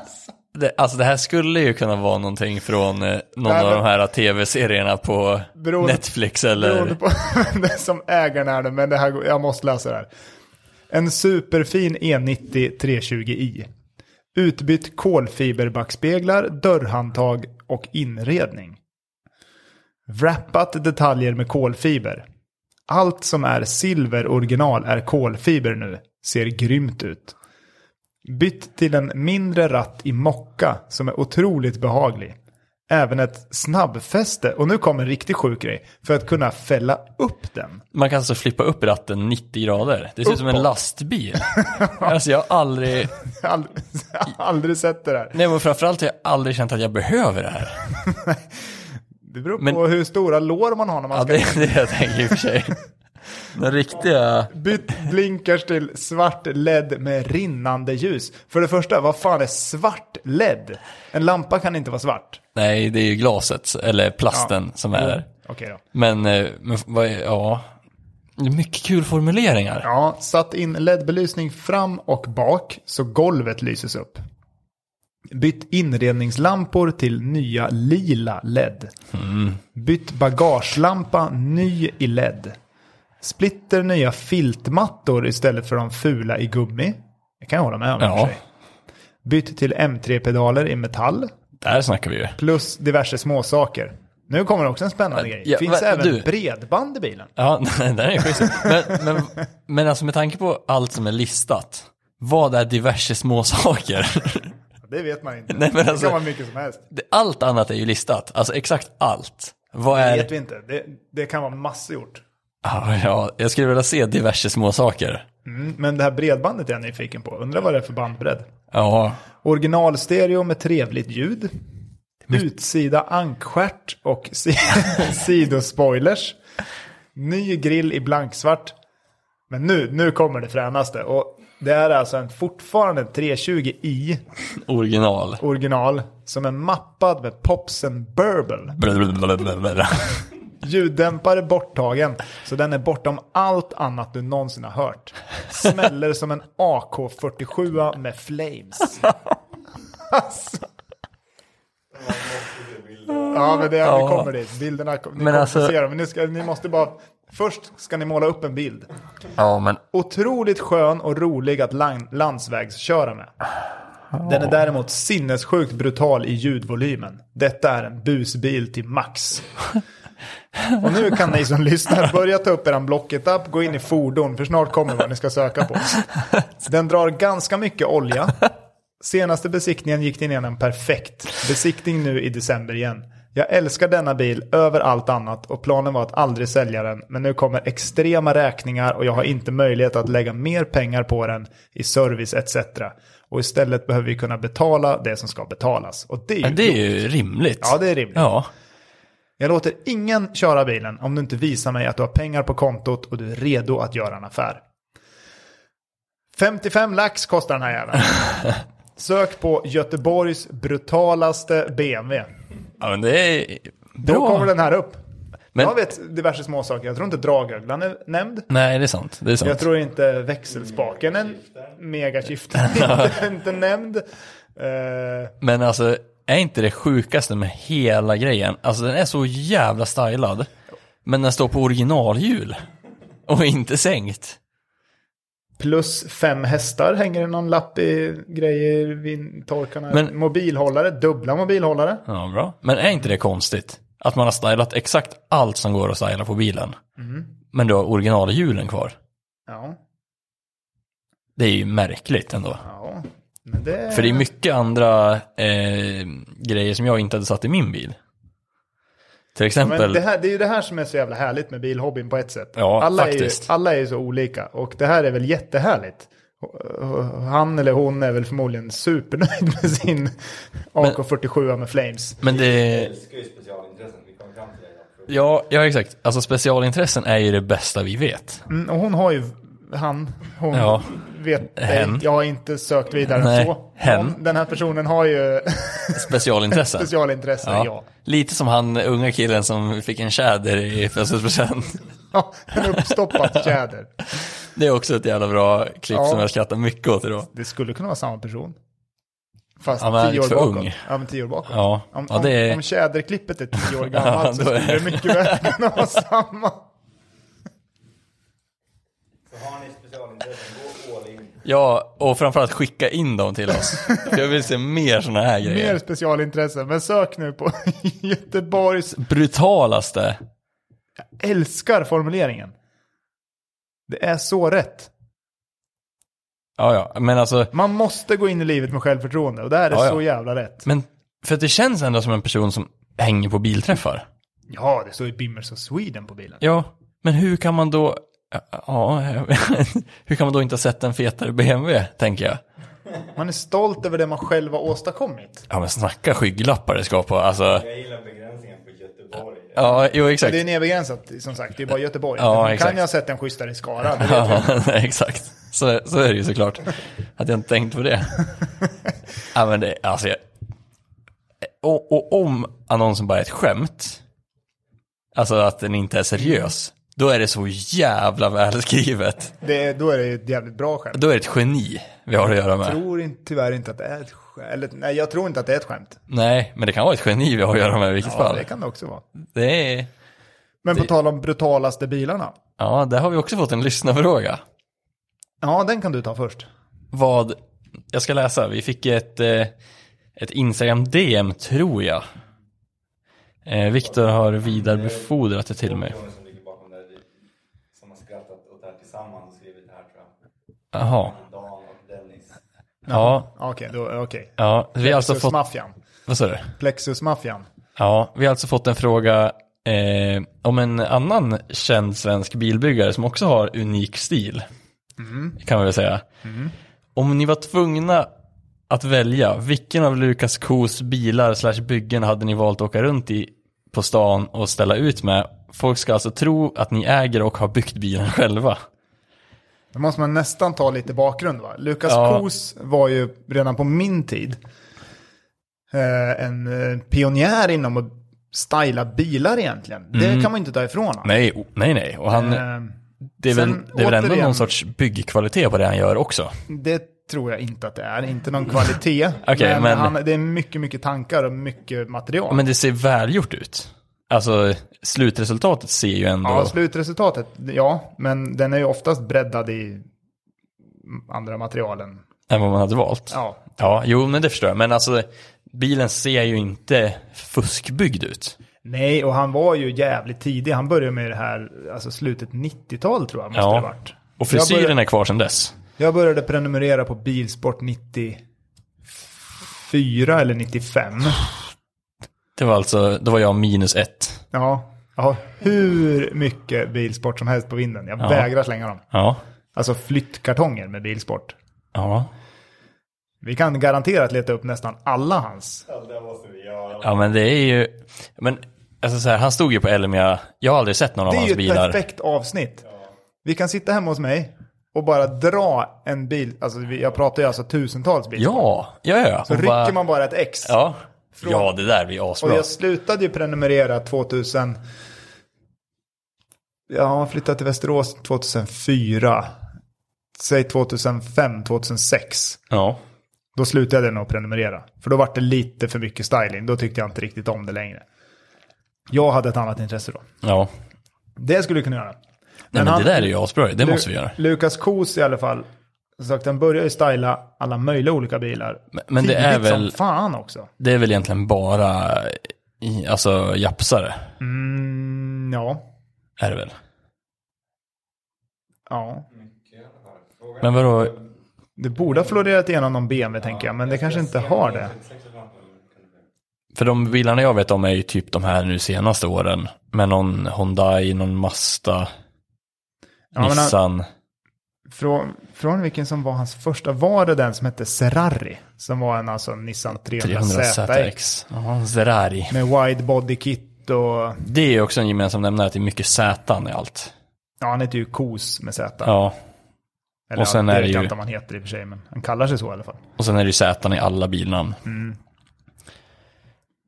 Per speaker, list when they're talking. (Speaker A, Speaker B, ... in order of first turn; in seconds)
Speaker A: 0.5-7.0, 37.9-43.1, 45.3-47.8, 51.1-52.8, 53.4-54.5, 62.5-65.2, 65.9-67.7, 68.4-69.8, 79.1-79.6, 88.0-88.3, 91.6-92.4, 95.1-96.3, 97.4-104.5, 105.5-106.2, 106.9-110.3, 112.6-115.2, 118.7-119.2, 134.6-135.4, 138.8-140.2, 153.7-154.3, 155.2-155.7, 159.3-159.8, 196.4-198.5, 212.8-214.5, 218.5-219.6, 222.6-223.2, 225.4-230.5, 231.0-232.6, 233.2-234.4, 242.1-246.8, 247.5-248.9, 251.4-252.6, 253.9-258.0, 259.3-260.0, 262.6-263.5, 272.2-272.9, 275.1-278.4, 280.5-280.9, 281.6-282.0, 283.1-284.1, 285.9-286.9, 287.4-291.8, 292.5-293.5, 294.5-297.3, 299.8-300.8, 301.5-302.6, 303.6-305.6, 311.4-315.8, 318.9-320.2, 326.6-327.5, 329.7-330.0, 330.6-334.1, 336.4-342.4, 345.5-347.6, 349.5-350.4, 352.2-352.8, 353.8-358.2, 359.3-360.2, 361.4-364.0, 365.1-369.3, 370.9-372.8, 376.1-378.5, 379.2-379.9, 382.6-384.4, 386.9-387.4, 387.9-389.5, 390.1-392.0, 393.4-395.9, 400.7-401.1, 402.9-403.3, 404.4-405.3, 406.1-406.5, 407.8-414.4, 415.4-416.0, 416.9-418.1, 418.7-428.6, 431.9-432.2, 439.9-440.3, 441.0-442.4, 443.2-446.3, 449.2-449.9, 452.3-456.6, 462.3-468.4, 473.3-475.5, 482.4-484.2, 488.0-488.3, 488.9-489.2, 491.7-492.1, 496.8-501.8, 508.1-509.7, 510.4-512.5, 522.5-522.8, 530.2-530.5, 532.5-534.2, 538.7-539.7, 540.6-544.1, 546.2-546.5, 550.4-551.0, 556.5-561.9, 563.2-563.9, 570.0-572.3, 574.2-576.9, 578.8-579.1, 580.2-580.9, 583.0-584.6
Speaker B: 3.5-3.8, 5.5-10.1, 10.9-13.7, 14.3-18.8, 20.1-22.2, 22.9-27.4, 28.2-32.3, 32.9-37.8, 40.2-40.7, 41.5-42.1, 43.1-45.4, 48.0-48.4, 49.2-52.4, 54.5-62.4, 64.3-65.8, 69.8-74.2, 75.3-78.9, 79.8-82.5, 83.2-88.4, 89.2-91.3, 92.4-97.3, 98.4-98.7, 104.8-106.8, 109.9-112.2, 115.4-118.5, 119.4-121.5, 122.2-126.4, 127.1-128.7, 129.5-134.2, 135.4-138.8, 140.6-149.1, 150.1-150.6, 153.3-158.9, 159.9-163.3, 164.2-169.5, 170.8-178.5, 179.0-196.8, 197.6-198.3, 199.4-204.6, 206.3-208.3, 208.9-212.3, 214.0-215.0, 215.6-218.5, 219.4-224.0, 224.6-225.3, 235.6-242.0, 247.0-247.3, 249.5-249.8, 252.6-254.2, 259.6-270.2, 270.7-272.2, 278.5-287.9, 292.1-294.0, 295.9-296.2, 297.3-298.6, 299.6-306.6, 313.8-314.1, 315.4-319.0, 321.2-322.5, 323.9-324.9, 327.5-330.6, 334.5-336.4, 343.1-345.4, 350.2-354.5, 369.4-371.0, 372.2-376.0, 378.0-379.0, 380.6-382.3, 385.4-386.5, 402.9-405.7, 406.6-407.4, 415.0-415.4, 416.2-416.5, 429.7-434.4, 435.7-441.1, 442.1-442.8, 443.3-444.5, 446.5-452.4, 456.2-459.9, 460.9-462.0, 463.1-463.8, 468.6-474.8, 475.8-478.2, 479.5-481.2, 484.3-488.8, 489.5-491.4, 493.2-495.6, 501.1-502.6, 503.2-508.5, 509.3-510.6, 511.1-511.5, 512.2-514.6, 516.7-519.3, 520.2-522.4, 523.3-527.8, 528.9-530.0, 531.2-532.0, 532.5-535.5, 536.0-540.5, 544.2-545.6, 548.7-549.0, 551.6-554.7, 563.1-563.5, 564.7-570.9, 572.3-574.2, 577.4-578.9, 580.1-582.8, 584.6-585.0
Speaker C: 151.9-153.5, 220.7-221.8, 272.2-275.2, 309.3-311.4, 347.4-349.8, 394.5-397.0, 397.7-400.1, 400.9-402.4, 495.7-496.9, 549.1-551.0, 553.2-556.0